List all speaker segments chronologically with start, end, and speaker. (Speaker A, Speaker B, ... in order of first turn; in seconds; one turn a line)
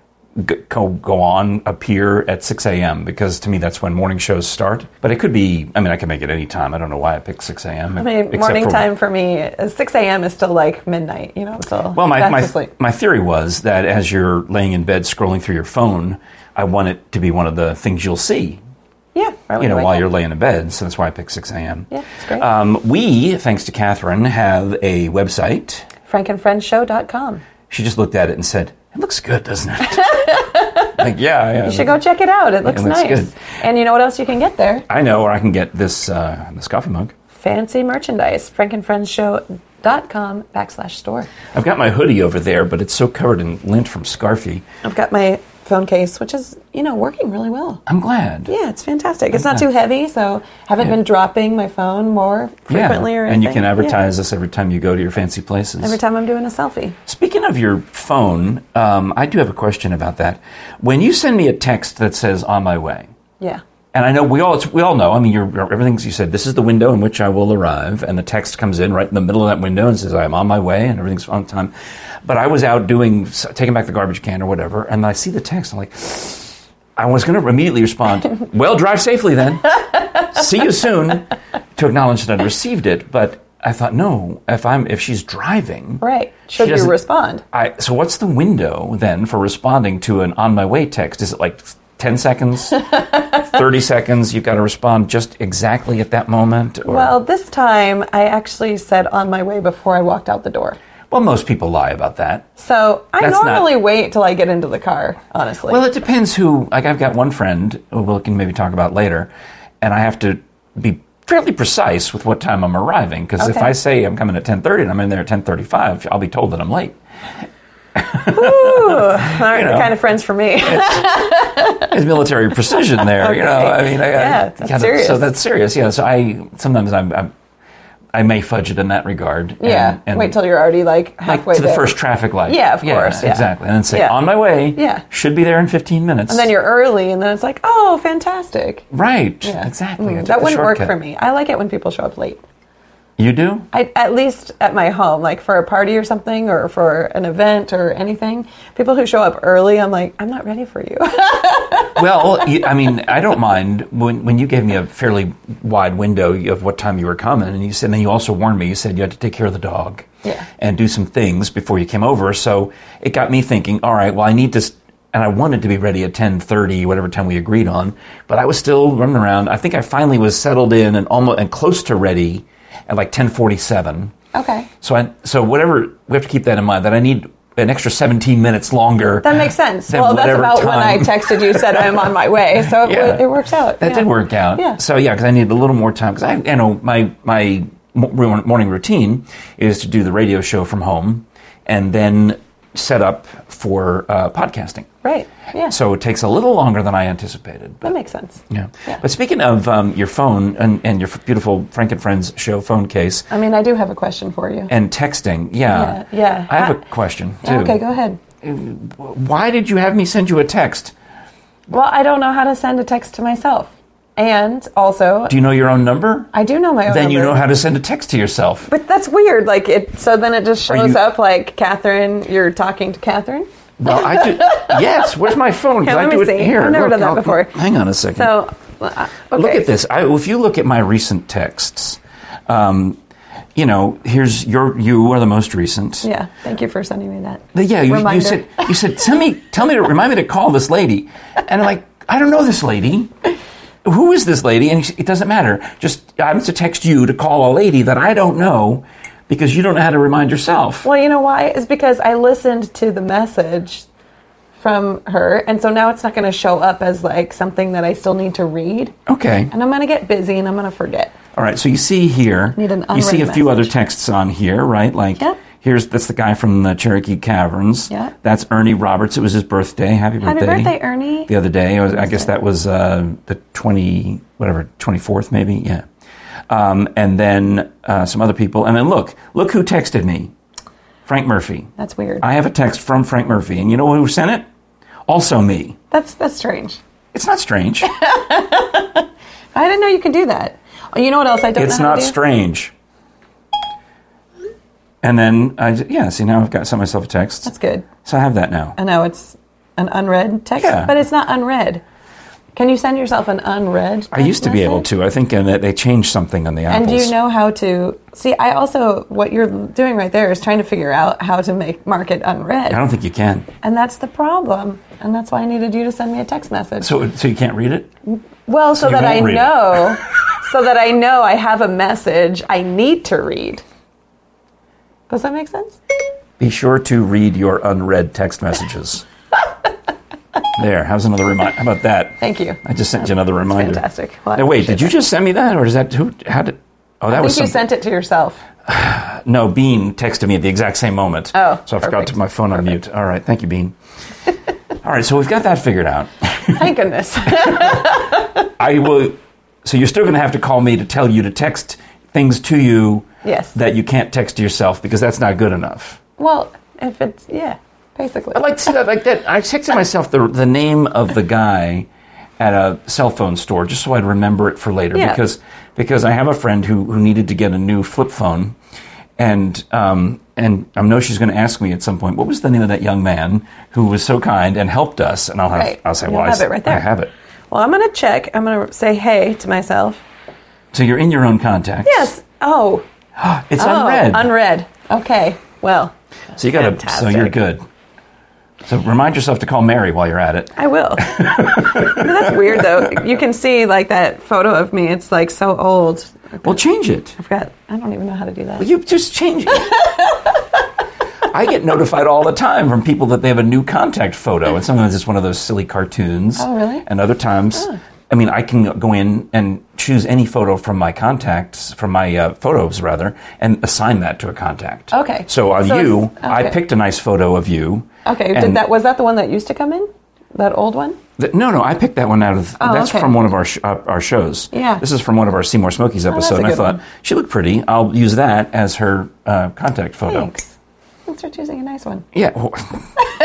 Speaker A: 0.4-8.9
Speaker B: 8.0-12.7
Speaker A: 11.9-18.6
Speaker B: 19.1-20.0
Speaker A: 19.6-25.9
Speaker B: 21.9-22.4
Speaker B: 26.1-27.4
Speaker A: 27.7-32.0
Speaker B: 29.9-31.0
Speaker B: 31.6-34.9
Speaker A: 32.6-33.3
Speaker A: 34.9-37.1
Speaker B: 37.4-41.3
Speaker A: 41.5-44.6
Speaker B: 44.8-47.8
Speaker A: 47.9-48.5
Speaker B: 48.5-54.0
Speaker A: 52.7-56.0
Speaker B: 55.8-57.0
Speaker A: 57.1-63.1
Speaker A: 63.9-71.7
Speaker A: 72.2-86.0
Speaker B: 86.0-87.4
Speaker A: 86.6-87.0
Speaker A: 87.5-97.2
Speaker B: 96.9-100.8
Speaker A: 101.1-102.5
Speaker B: 102.6-105.8
Speaker A: 103.2-103.7
Speaker A: 105.7-109.3
Speaker A: 109.8-117.0
Speaker B: 113.4-113.7
Speaker A: 118.0-119.9
Speaker B: 118.3-122.0
Speaker A: 120.7-121.1
Speaker A: 121.8-127.3
Speaker B: 122.7-125.3
Speaker A: 128.1-130.4
Speaker B: 129.6-131.9
Speaker A: 131.3-136.5
Speaker B: 132.5-134.2
Speaker B: 134.8-135.0
Speaker B: 136.3-138.8
Speaker A: 138.9-140.9
Speaker B: 139.4-142.4
Speaker A: 143.2-143.7
Speaker B: 143.7-152.2
Speaker A: 151.9-174.1
Speaker B: 174.3-174.7
Speaker A: 174.8-182.1
Speaker B: 179.2-184.8
Speaker A: 182.6-194.9
Speaker B: 195.0-195.7
Speaker A: 195.7-197.9
Speaker B: 197.8-199.0
Speaker A: 198.5-203.3
Speaker B: 203.3-204.7
Speaker A: 204.7-207.8
Speaker B: 205.7-206.8
Speaker B: 207.4-208.2
Speaker A: 208.4-210.9
Speaker B: 211.7-215.3
Speaker A: 215.3-216.3
Speaker B: 216.3-217.4
Speaker A: 216.9-218.7
Speaker B: 218.7-227.6
Speaker A: 220.7-221.0
Speaker A: 223.8-228.3
Speaker B: 228.2-229.7
Speaker A: 229.3-233.0
Speaker A: 233.6-236.1
Speaker B: 236.0-238.8
Speaker A: 237.5-243.1
Speaker A: 243.8-250.9
Speaker B: 250.8-253.9
Speaker B: 254.6-258.9
Speaker A: 259.1-259.5
Speaker B: 259.5-261.2
Speaker A: 261.4-270.8
Speaker B: 262.6-263.7
Speaker B: 270.2-271.3
Speaker A: 271.3-275.8
Speaker B: 271.9-272.3
Speaker A: 276.5-280.3
Speaker A: 281.1-284.4
Speaker B: 281.8-282.2
Speaker A: 285.1-285.8
Speaker B: 285.9-286.8
Speaker A: 287.1-287.9
Speaker B: 287.9-292.2
Speaker A: 291.6-292.7
Speaker A: 295.0-297.5
Speaker B: 297.4-297.9
Speaker A: 298.1-298.8
Speaker B: 298.8-301.8
Speaker A: 300.6-300.9
Speaker B: 302.6-304.9
Speaker A: 304.1-307.1
Speaker B: 306.7-312.8
Speaker A: 312.7-313.5
Speaker B: 313.6-316.9
Speaker A: 316.8-317.9
Speaker B: 318.1-323.6
Speaker A: 318.7-319.9
Speaker B: 325.1-325.8
Speaker A: 326.4-329.1
Speaker A: 330.6-333.8
Speaker B: 332.2-334.9
Speaker A: 334.4-337.6
Speaker B: 337.1-338.4
Speaker A: 338.7-343.8
Speaker B: 341.3-342.1
Speaker A: 344.8-346.7
Speaker B: 346.5-348.4
Speaker A: 347.4-348.0
Speaker A: 348.6-356.0
Speaker B: 353.2-353.6
Speaker B: 356.2-358.4
Speaker A: 358.3-361.9
Speaker A: 362.4-368.6
Speaker B: 364.9-365.2
Speaker A: 369.2-377.1
Speaker B: 375.6-376.9
Speaker B: 377.5-380.0
Speaker A: 380.7-382.1
Speaker B: 381.8-382.9
Speaker A: 383.2-384.3
Speaker B: 383.6-387.4
Speaker A: 386.4-387.6
Speaker A: 388.7-392.7
Speaker B: 390.6-396.6
Speaker A: 396.4-397.2
Speaker B: 397.2-398.7
Speaker A: 398.6-399.8
Speaker B: 399.6-400.4
Speaker A: 401.3-418.6
Speaker B: 406.4-406.9
Speaker B: 414.9-416.6
Speaker B: 418.1-421.0
Speaker A: 421.2-430.3
Speaker B: 422.6-423.1
Speaker B: 424.5-424.8
Speaker B: 426.1-426.8
Speaker B: 430.1-432.1
Speaker A: 432.1-432.9